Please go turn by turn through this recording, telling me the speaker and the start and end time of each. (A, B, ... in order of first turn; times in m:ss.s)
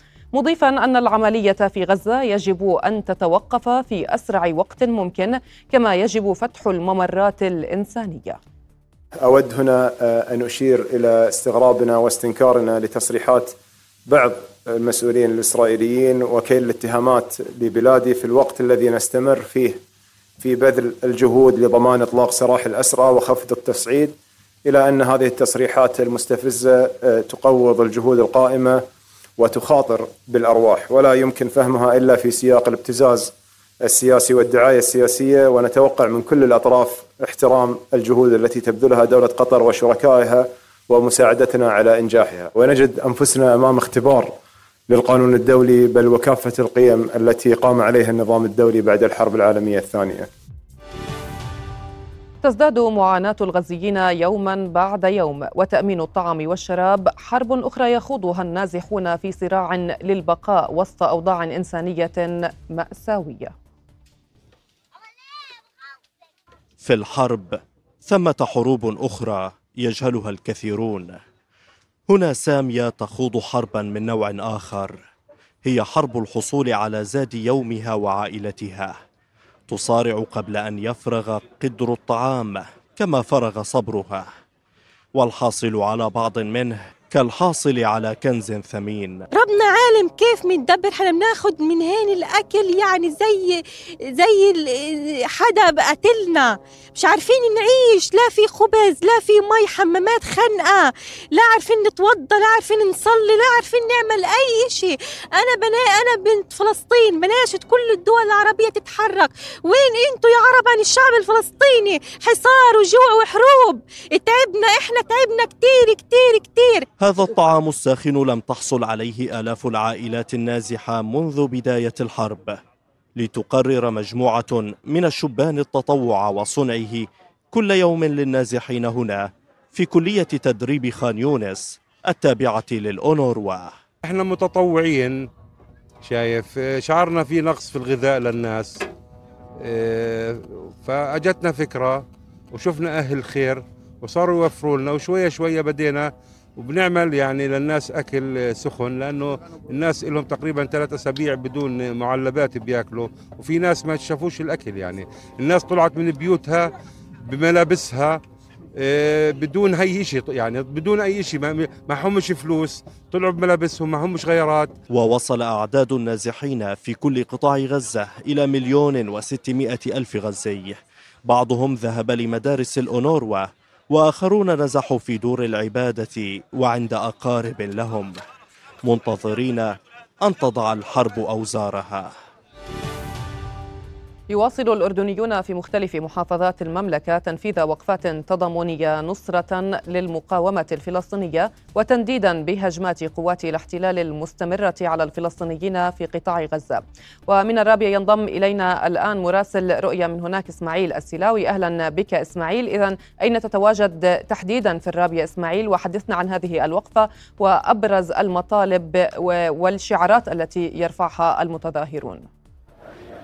0:00.3-0:08.4 A
0:09.2-0:13.6 B
0:14.1-0:19.8 B
0:20.4-0:28.8 B
0:29.4-0:33.3 B
0:33.8-0:44.4 B
0:44.9-0:50.3 B
0:52.4-1:03.5 A
1:06.8-1:11.2 C
1:12.1-1:15.0 C
1:15.6-1:19.0 C
1:19.7-1:24.3 C
1:25.2-1:29.2 C
1:29.3-1:33.6 D
1:34.2-1:56.8 D
1:57.0-2:02.6 C
2:03.2-2:13.7 C
2:14.0-2:15.3 E
2:16.0-2:18.8 E
2:19.6-2:36.7 E
2:37.2-2:38.2 E
2:38.8-2:44.7 E
2:44.9-2:58.2 C
2:58.8-3:02.1 C
3:04.3-3:32.3 A